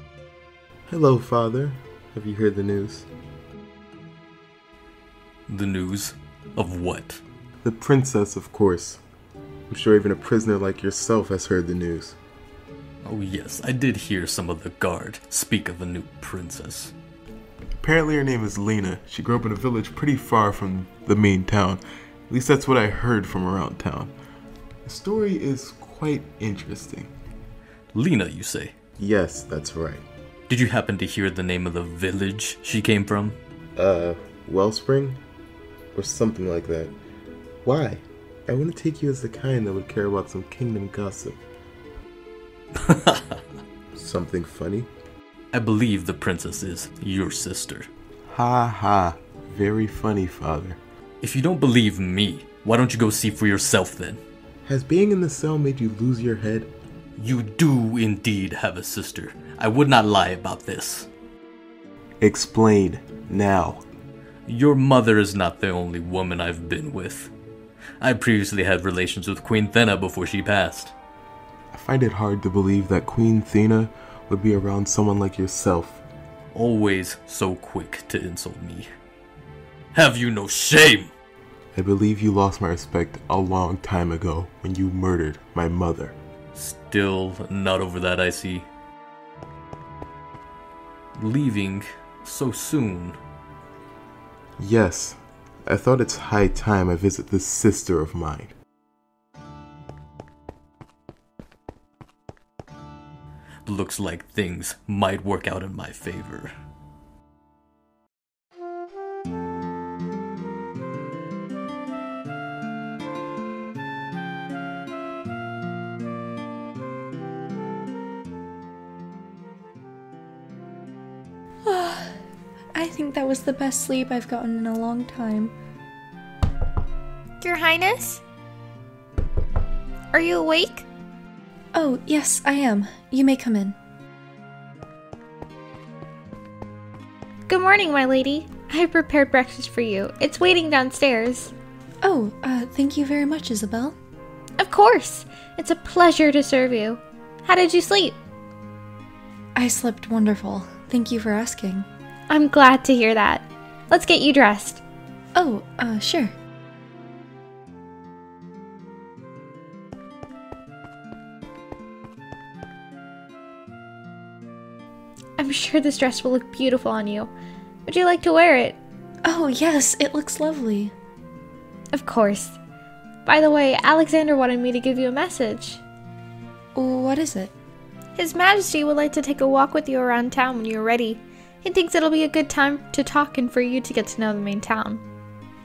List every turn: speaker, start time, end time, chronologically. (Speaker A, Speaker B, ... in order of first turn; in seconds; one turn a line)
Speaker A: 0.9-3.1
Speaker B: 5.5-7.2
Speaker A: 7.6-9.0
Speaker A: 9.7-12.2
Speaker B: 13.0-16.9
Speaker A: 17.8-24.1
Speaker A: 24.9-27.1
Speaker B: 27.9-28.7
Speaker A: 29.0-30.0
Speaker B: 30.5-33.4
Speaker A: 33.8-35.2
Speaker A: 35.9-36.9
Speaker A: 37.6-41.4
Speaker B: 42.9-43.2
Speaker A: 43.9-44.9
Speaker B: 45.5-47.9
Speaker A: 48.3-50.8
Speaker B: 51.2-54.2
Speaker A: 54.7-56.7
Speaker B: 57.2-61.1
Speaker A: 62.2-63.8
Speaker B: 64.5-67.3
Speaker B: 68.0-70.9
Speaker A: 71.7-76.0
Speaker B: 76.5-78.9
Speaker B: 79.9-81.1
Speaker A: 81.7-86.1
Speaker B: 86.5-88.7
Speaker B: 91.2-93.2
Speaker A: 94.6-98.5
Speaker B: 103.7-106.5
Speaker C: 121.7-122.2
Speaker C: 122.7-125.5
Speaker D: 127.4-128.2
Speaker D: 130.1-130.8
Speaker C: 131.7-133.7
Speaker D: 137.5-141.5
Speaker C: 142.0-143.9
Speaker D: 144.6-148.2
Speaker C: 149.6-151.8
Speaker D: 152.3-154.8
Speaker C: 155.3-156.3
Speaker D: 165.4-167.3
Speaker D: 167.8-168.8
Speaker C: 169.2-170.9
Speaker D: 171.9-172.6
Speaker D: 173.2-175.8
Speaker C: 176.8-177.5
Speaker D: 178.2-185.0